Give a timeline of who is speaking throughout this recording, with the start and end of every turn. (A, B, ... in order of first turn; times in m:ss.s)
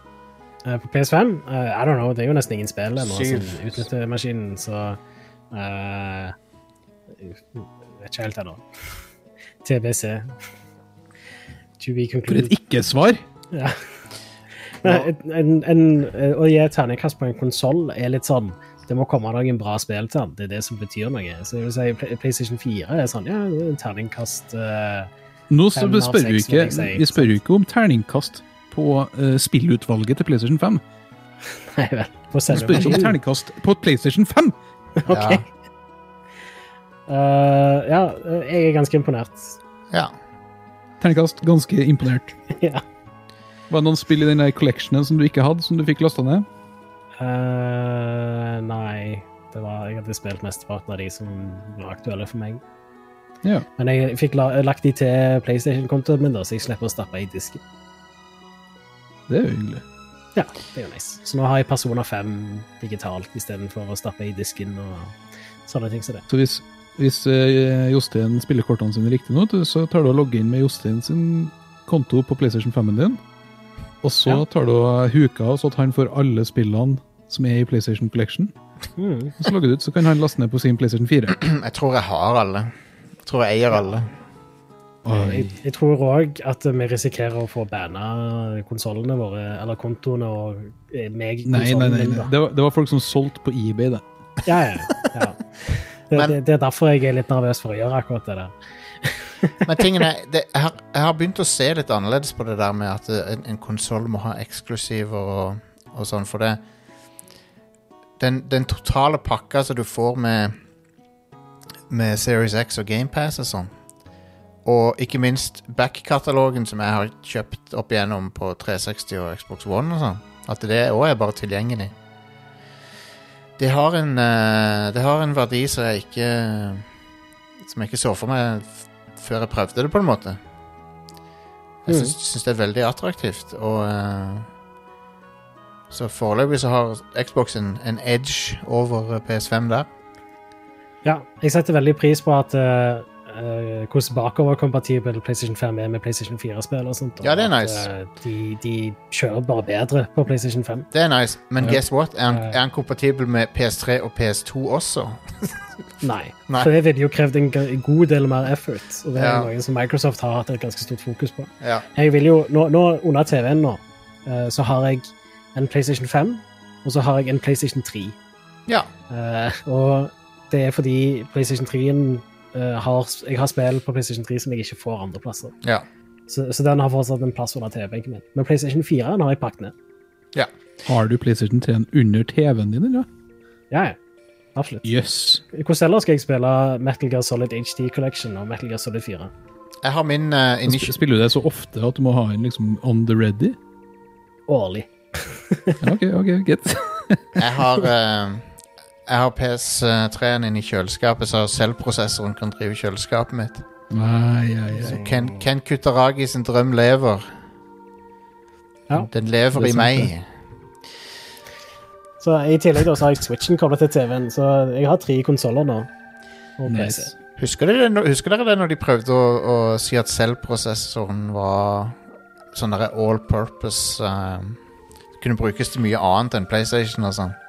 0:00.6-0:05.0 A
0:03.0-0:03.9 B
0:05.5-0:06.4 A
0:07.2-0:08.6 A
0:09.6-0:10.3 A
0:11.8-0:12.5 A
0:12.3-0:13.2 C
0:13.5-0:13.8 A
0:14.8-0:25.1 A
0:14.8-0:15.1 B
0:25.5-0:30.8 C
0:25.8-0:27.3 A
0:31.7-0:33.2 A
0:32.5-0:34.6 C
0:35.0-0:35.4 A
0:35.1-0:35.4 B
0:37.1-0:39.6 A
0:41.0-0:42.4 C
0:42.6-0:42.8 A
0:43.7-0:46.5 C
0:47.2-0:52.6 A
0:53.8-0:57.6 A
0:59.3-0:59.8 C
1:00.4-1:05.2 A
1:05.7-1:06.2 A
1:06.3-1:13.2 C
1:14.0-1:18.5 C
1:19.0-1:19.3 A
1:19.4-1:21.4 C
1:21.3-1:24.1 B
1:25.0-1:25.6 C
1:25.1-1:32.3 A
1:31.4-1:34.0 C
1:34.5-1:39.6 A
1:39.6-1:46.6 B
1:48.2-1:50.6 B
1:51.9-1:53.7 B
1:54.6-2:02.0 B
2:03.6-2:06.9 B
2:07.6-2:10.4 B
2:11.8-2:14.5 B
2:11.9-2:12.1 A
2:15.9-2:19.9 B
2:21.0-2:30.9 A
2:27.2-2:27.9 B
2:30.9-2:35.6 B
2:32.3-2:32.6 A
2:36.0-2:48.2 A
2:39.1-2:39.5 B
2:41.6-2:41.9 B
2:49.1-2:55.5 A
2:56.3-2:59.7 A
3:00.9-3:03.1 C
3:03.7-3:04.0 A
3:04.6-3:04.9 A
3:04.8-3:05.4 C
3:05.5-3:09.3 A
3:09.8-3:11.0 B
3:10.7-3:13.6 C
3:14.5-3:15.8 A
3:15.8-3:17.2 C
3:17.4-3:18.5 B
3:19.1-3:23.6 B
3:23.9-3:25.0 C
3:24.8-3:25.4 A
3:24.8-3:27.4 B
3:28.9-3:30.3 B
3:29.5-3:30.1 C
3:32.2-3:35.9 A
3:36.6-3:37.1 A
3:36.7-3:37.1 C
3:37.4-3:42.0 B
3:42.5-3:44.6 B
3:45.2-3:47.4 B